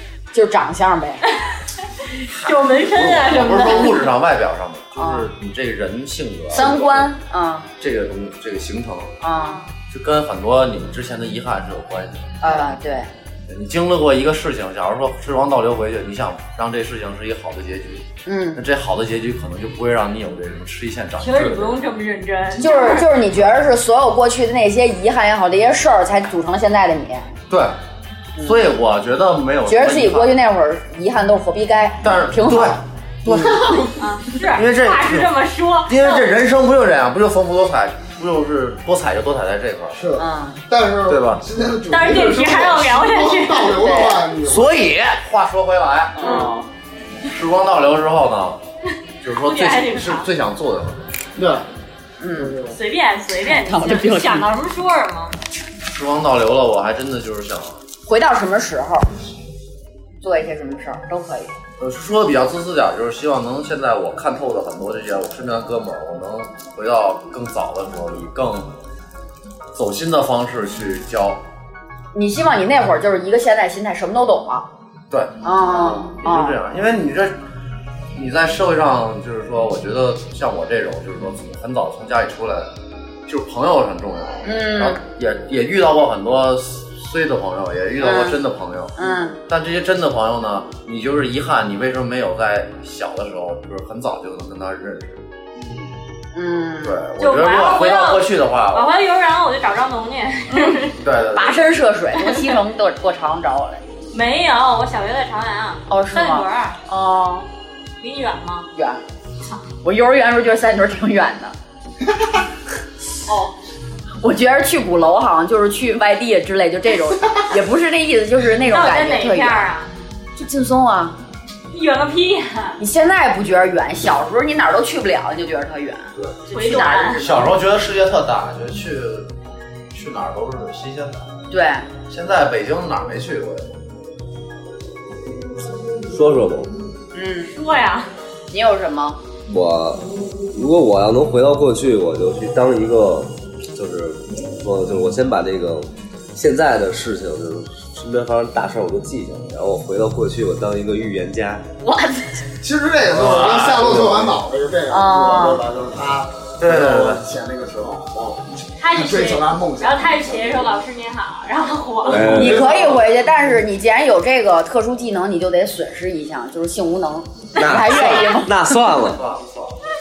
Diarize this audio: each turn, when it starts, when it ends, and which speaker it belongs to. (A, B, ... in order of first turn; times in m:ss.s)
0:00.3-0:01.2 A
0:02.0-0:04.0 B
0:02.3-0:07.1 C
0:03.6-0:03.9 A
0:05.0-0:05.3 A
0:06.5-0:07.7 A
0:07.8-0:09.1 C
0:09.2-0:09.6 A
0:09.9-0:12.6 C
0:12.4-0:13.1 A
0:13.5-0:21.8 C
0:18.2-0:18.6 A
0:21.2-0:23.1 B
0:22.6-0:27.3 A
0:27.5-0:27.8 C
0:28.4-0:28.6 A
0:28.4-0:30.4 C
0:29.7-0:33.7 A
0:32.0-0:35.3 C
0:33.6-0:33.9 D
0:34.0-0:36.3 B
0:35.9-0:40.0 C
0:39.9-0:44.8 D
0:40.2-0:40.6 A
0:41.1-0:41.4 C
0:41.9-0:43.9 B
0:43.8-0:44.3 A
0:44.4-0:46.5 C
0:46.2-0:46.6 A
0:46.2-0:46.5 B
0:47.2-0:48.6 C
0:49.2-0:51.2 C
0:49.4-0:50.3 B
0:51.4-0:51.7 D
0:52.2-0:52.6 A
0:52.4-0:52.8 D
0:52.7-0:55.3 B
0:53.4-0:54.5 A
0:55.9-0:57.8 C
0:58.1-0:59.1 A
1:00.2-1:01.5 A
1:01.8-1:08.7 C
1:09.8-1:11.4 C
1:12.1-1:14.7 A
1:15.1-1:17.4 C
1:15.4-1:16.6 A
1:18.2-1:22.7 C
1:23.3-1:28.9 C
1:24.4-1:25.0 A
1:28.0-1:28.4 A
1:29.0-1:29.4 A
1:29.5-1:35.9 C
1:36.3-1:37.0 A
1:36.8-1:38.9 C
1:37.2-1:41.0 B
1:41.0-1:41.7 C
1:41.3-1:43.8 A
1:42.2-1:42.5 B
1:44.1-1:46.8 B
1:45.9-1:47.5 A
1:48.0-1:48.7 B
1:48.8-1:49.0 A
1:49.8-1:51.6 A
1:54.2-1:59.7 A
1:58.7-1:59.9 B
2:00.4-2:01.2 A
2:01.7-2:02.8 B
2:02.8-2:07.6 A
2:06.5-2:07.3 B
2:07.2-2:09.3 C
2:09.9-2:11.3 C
2:11.5-2:11.9 A
2:12.1-2:13.8 C
2:16.1-2:16.7 E
2:17.1-2:17.5 A
2:17.5-2:18.1 B
2:18.5-2:19.2 A
2:19.5-2:31.6 E
2:31.8-2:32.4 A
2:32.6-2:40.8 D
2:33.1-2:34.4 C
2:34.9-2:35.6 A
2:36.6-2:37.2 C
2:38.8-2:42.3 B
2:42.1-2:42.7 E
2:42.1-2:43.1 D
2:42.3-2:48.5 A
2:47.6-2:49.2 E
2:49.0-2:49.8 C